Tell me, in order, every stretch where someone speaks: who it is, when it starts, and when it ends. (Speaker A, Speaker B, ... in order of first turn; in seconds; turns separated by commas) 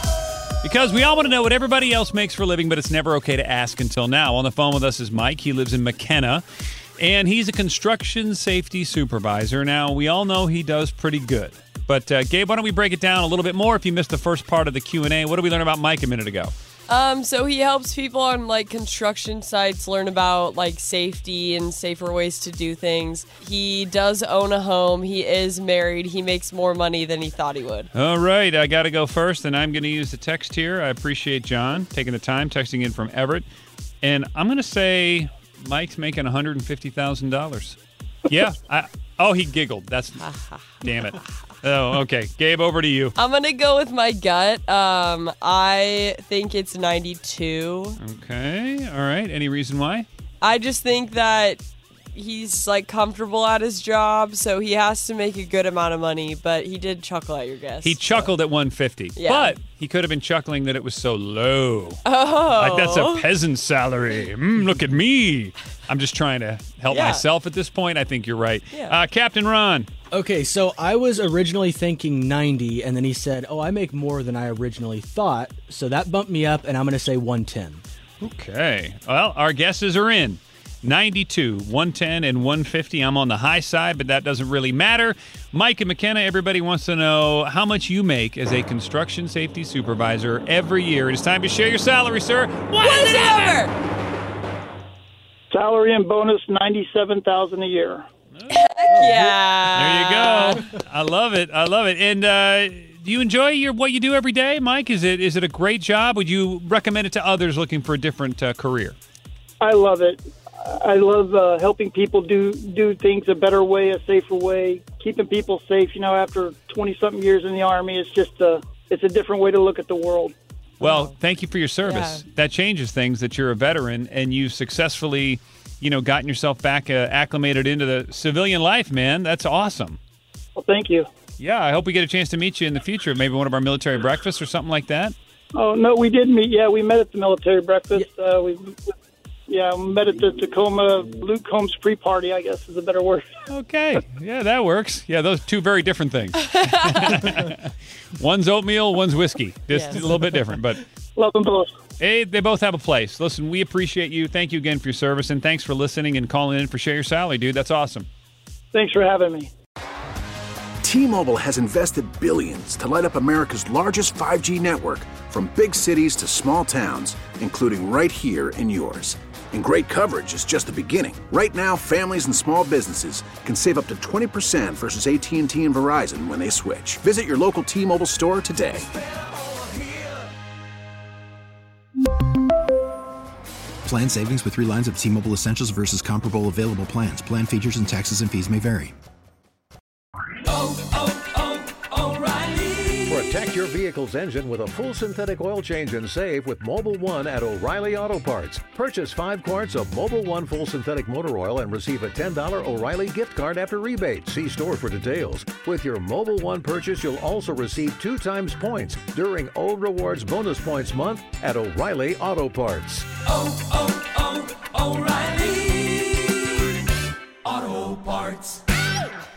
Speaker A: 0.6-6.4, Speaker A: 7.0-16.5, Speaker B: 16.9-27.9, Speaker A: 27.9-33.5, Speaker A: 34.0-37.8, Speaker A: 38.3-43.1, Speaker B: 40.2-40.8, Speaker B: 43.1-48.0, Speaker A: 48.0-50.0, Speaker B: 50.4-51.6, Speaker B: 52.1-58.3, Speaker A: 57.8-69.9, Speaker B: 59.1-59.5, Speaker B: 62.0-63.2, Speaker B: 66.9-67.2, Speaker C: 70.2-77.8, Speaker A: 78.2-93.6, Speaker B: 92.8-93.7, Speaker D: 95.5-98.0, Speaker A: 98.3-109.0, Speaker B: 98.5-100.6, Speaker D: 109.6-120.3, Speaker A: 120.8-130.0, Speaker B: 121.8-122.2, Speaker D: 130.6-131.1, Speaker A: 131.4-135.1, Speaker D: 135.5-138.8, Speaker D: 139.5-143.3, Speaker A: 143.5-150.8, Speaker B: 149.7-150.0, Speaker D: 151.2-151.7, Speaker A: 152.0-158.1, Speaker D: 158.7-159.5, Speaker E: 160.8-178.8, Speaker F: 183.8-188.9, Speaker G: 193.1-213.1